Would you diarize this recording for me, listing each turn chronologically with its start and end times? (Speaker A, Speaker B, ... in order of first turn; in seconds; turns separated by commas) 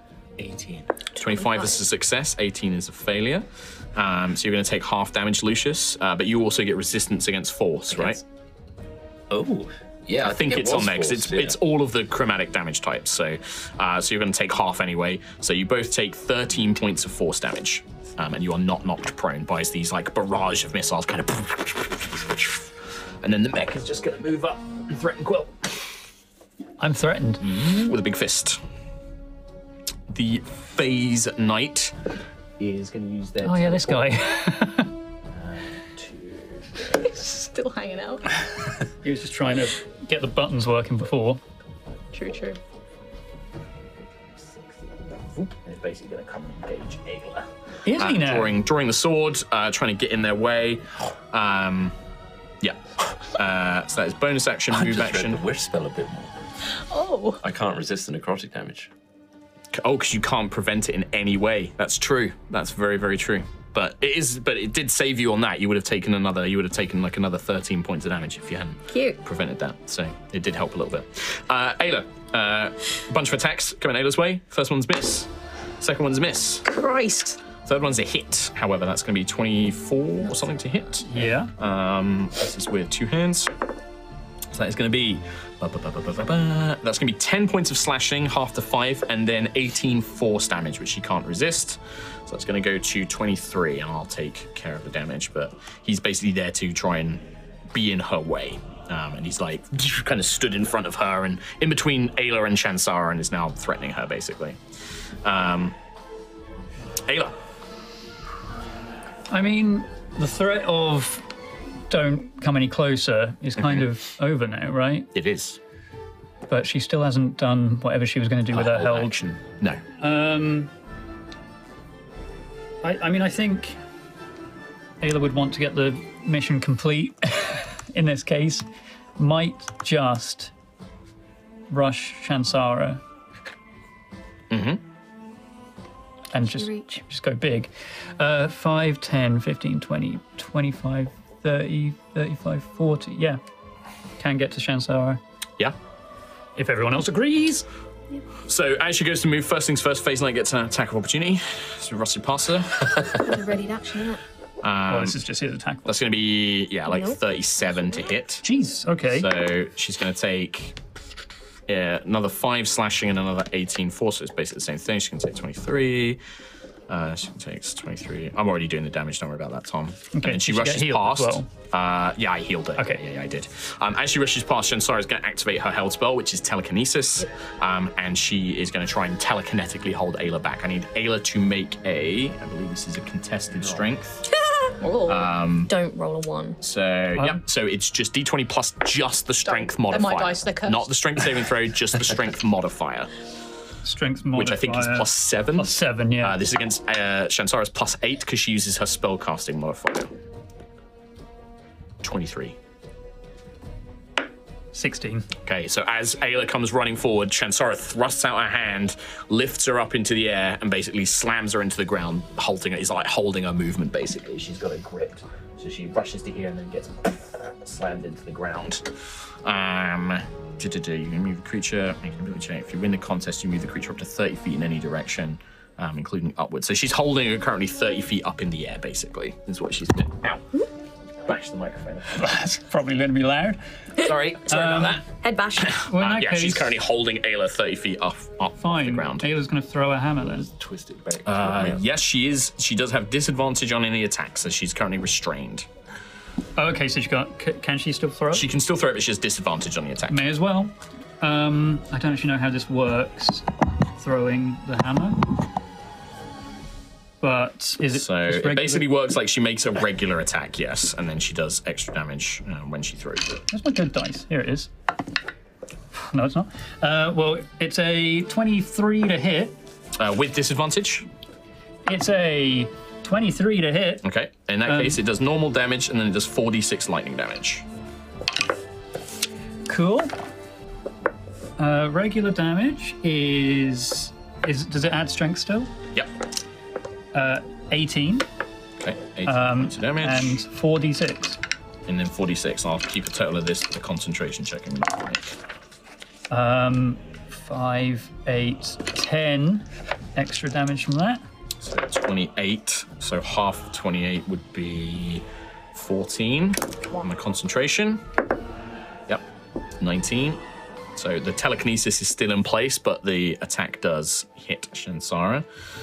Speaker A: 0.4-0.9, Speaker B: 1.1-8.2, Speaker A: 7.9-8.2, Speaker A: 9.3-11.6, Speaker B: 10.2-22.7, Speaker B: 23.2-25.8, Speaker C: 26.8-27.9, Speaker B: 27.4-28.6, Speaker B: 30.1-31.9, Speaker B: 32.6-34.3, Speaker C: 33.4-34.9, Speaker B: 35.3-37.2, Speaker D: 37.0-38.2, Speaker C: 39.0-41.4, Speaker D: 42.1-42.6, Speaker B: 45.2-52.0, Speaker C: 47.9-48.6, Speaker B: 52.6-55.4, Speaker A: 54.7-56.3, Speaker D: 56.9-57.4, Speaker A: 57.4-58.9, Speaker B: 59.7-75.3, Speaker E: 68.9-69.2, Speaker B: 75.8-76.7, Speaker D: 76.8-77.3, Speaker B: 77.7-83.5, Speaker C: 81.1-81.5, Speaker B: 84.5-97.2, Speaker B: 97.7-104.6, Speaker B: 105.2-105.8, Speaker B: 107.1-107.3, Speaker C: 109.3-111.2, Speaker C: 111.9-115.1, Speaker B: 113.6-113.9, Speaker B: 115.1-115.6, Speaker C: 116.5-119.2, Speaker B: 118.5-119.8, Speaker C: 120.0-120.7, Speaker C: 122.8-123.8, Speaker C: 125.0-128.7, Speaker C: 129.2-130.5, Speaker C: 131.7-133.0, Speaker B: 134.5-134.8, Speaker C: 136.3-143.4, Speaker E: 136.4-137.0, Speaker C: 144.2-145.2, Speaker C: 146.6-147.7, Speaker B: 148.5-152.9, Speaker E: 153.2-154.2, Speaker B: 154.6-155.2, Speaker C: 154.9-156.0, Speaker B: 155.9-158.4, Speaker E: 156.9-157.2, Speaker C: 158.4-159.3, Speaker B: 159.1-160.8, Speaker B: 161.7-166.2, Speaker B: 166.9-184.3, Speaker C: 170.2-171.5, Speaker C: 172.8-173.0, Speaker A: 183.6-183.8, Speaker B: 185.1-185.7, Speaker E: 185.7-186.6, Speaker B: 186.6-193.1, Speaker C: 187.2-187.4, Speaker D: 189.5-190.8, Speaker C: 193.8-196.4, Speaker B: 194.3-200.1, Speaker B: 202.0-202.6, Speaker C: 204.7-205.3, Speaker B: 205.4-218.9, Speaker B: 219.4-230.4, Speaker B: 231.3-232.3, Speaker C: 232.2-233.6, Speaker B: 234.0-235.0, Speaker C: 234.5-235.0, Speaker E: 235.2-235.8, Speaker B: 235.7-239.3, Speaker C: 235.9-236.7, Speaker C: 238.6-240.5, Speaker A: 240.2-241.8, Speaker B: 241.2-245.7, Speaker C: 246.6-248.5, Speaker B: 248.3-250.2, Speaker C: 250.1-255.4, Speaker C: 257.2-258.9, Speaker B: 257.9-263.4, Speaker C: 263.5-264.7, Speaker C: 265.9-269.6, Speaker B: 270.0-271.1, Speaker C: 271.9-274.1, Speaker B: 274.0-277.6, Speaker C: 274.7-275.0, Speaker C: 279.7-280.1, Speaker C: 281.6-285.7, Speaker C: 287.1-288.3, Speaker B: 288.8-290.4, Speaker C: 289.3-291.4, Speaker B: 291.9-295.2, Speaker C: 296.3-301.2, Speaker B: 301.6-308.0, Speaker B: 309.8-310.4, Speaker B: 311.0-315.4